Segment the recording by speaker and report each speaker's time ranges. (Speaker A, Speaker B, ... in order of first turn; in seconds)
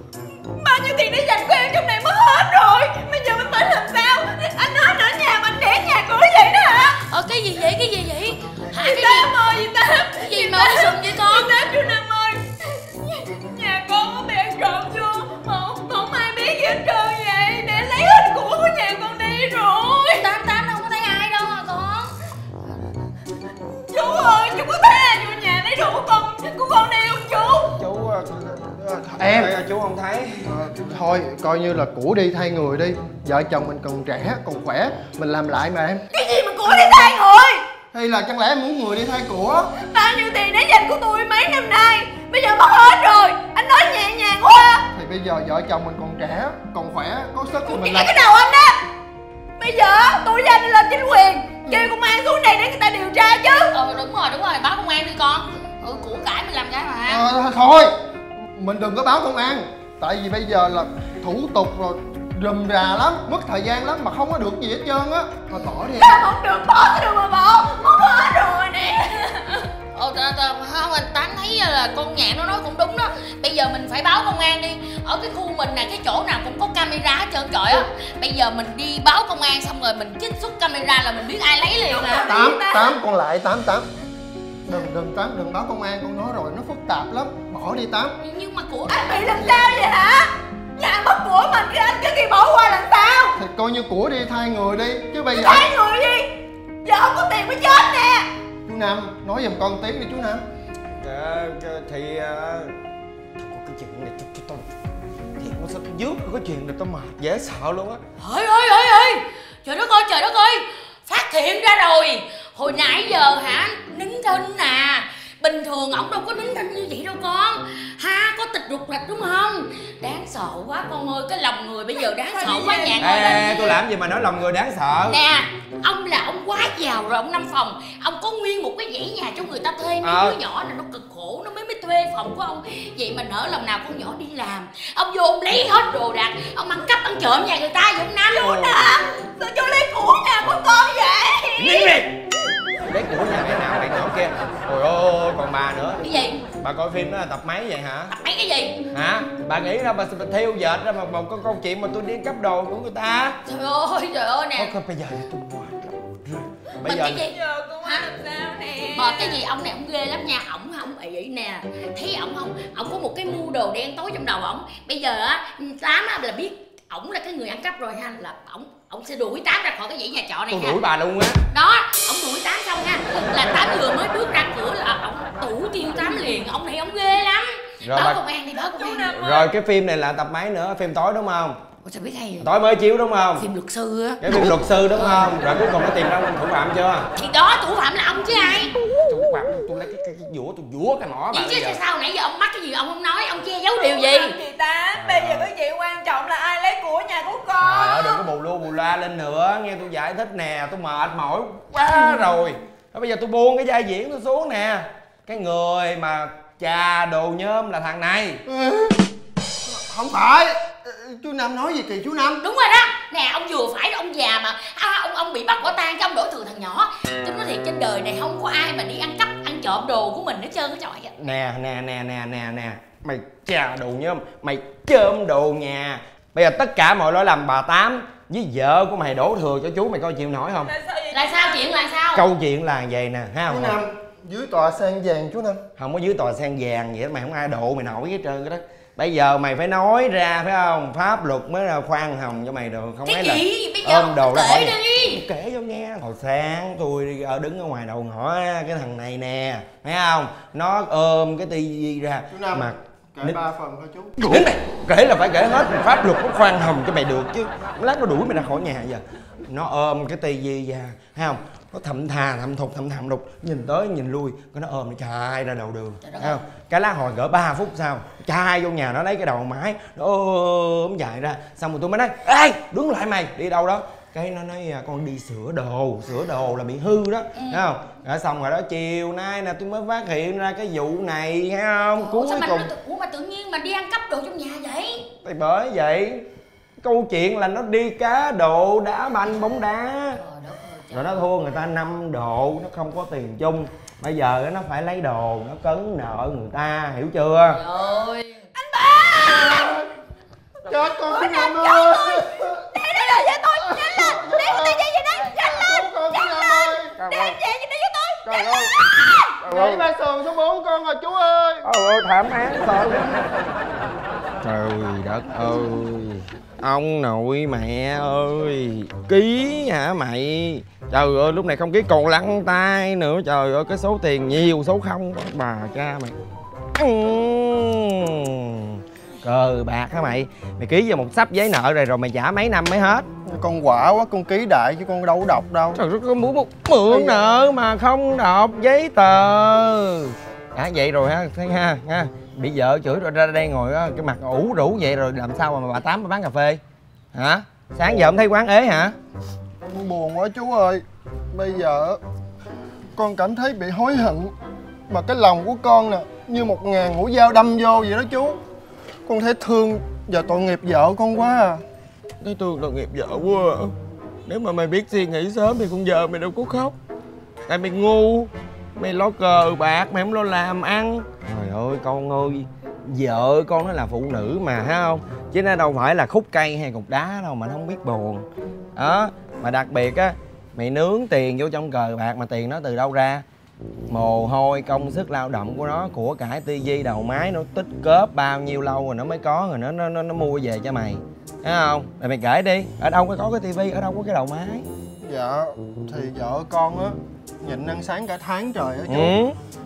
Speaker A: 0.5-7.0, 8.7-20.3, 23.9-27.8, 36.1-37.6, 39.7-44.9, 47.6-48.9, 49.6-53.7, 66.0-69.6, 81.9-83.0, 88.9-93.4, 95.3-96.3, 96.8-98.3, 122.2-123.6, 138.3-142.0, 157.3-159.4, 193.8-198.2, 230.9-231.6, 298.8-299.5, 301.2-302.2, 302.8-305.6, 307.0-308.5
Speaker B: 7.0-9.3, 10.1-11.5, 20.1-22.1, 53.6-57.2, 69.9-82.3, 88.2-89.0, 108.2-123.8, 125.1-138.6, 146.0-146.4, 148.1-148.8, 153.4-154.7, 156.8-158.1, 158.9-170.8, 171.5-179.5, 181.8-182.5, 183.4-184.2, 185.0-185.3, 187.2-188.7, 191.3-194.4, 212.4-221.1, 231.1-232.2, 243.0-245.2, 266.0-266.4, 277.4-277.6, 282.0-285.1, 290.1-291.2, 297.5-298.5
Speaker C: 27.8-30.5, 101.0-102.8, 103.4-104.7, 105.4-108.0, 123.0-125.2, 130.0-130.4, 138.4-138.8, 141.6-142.1, 142.9-146.0, 146.6-148.1, 148.9-153.4, 154.6-157.3, 170.5-171.4, 177.8-178.2, 178.9-181.6, 182.4-183.5, 184.2-187.1, 189.1-191.8, 194.9-195.5, 197.6-208.4, 221.2-230.7, 232.1-233.8, 235.8-253.4, 254.2-282.7, 285.2-286.2, 286.8-290.2, 290.9-297.6, 307.0-307.3, 308.3-308.7, 309.4-309.8, 311.6-313.2, 314.4-326.1, 326.8-333.1, 335.7-346.6, 347.1-348.9, 362.2-363.7, 364.3-366.8, 367.5-383.2, 383.9-394.6, 398.9-399.3
Speaker D: 29.1-29.5, 30.4-36.0, 37.9-39.7, 44.9-48.3, 57.0-57.9, 58.5-66.2, 82.3-83.9, 84.7-88.2, 93.4-95.7, 98.7-100.4, 208.4-209.0, 209.7-212.4, 233.5-235.6, 252.3-254.1, 299.2-299.9, 300.6-302.7, 303.8-304.8, 305.4-306.9, 309.4-311.6, 333.2-335.8, 336.9-337.3, 347.9-348.1, 349.6-352.0, 352.9-354.3, 354.9-358.4, 359.1-361.6, 395.0-399.1
Speaker E: 302.8-305.7, 307.1-307.6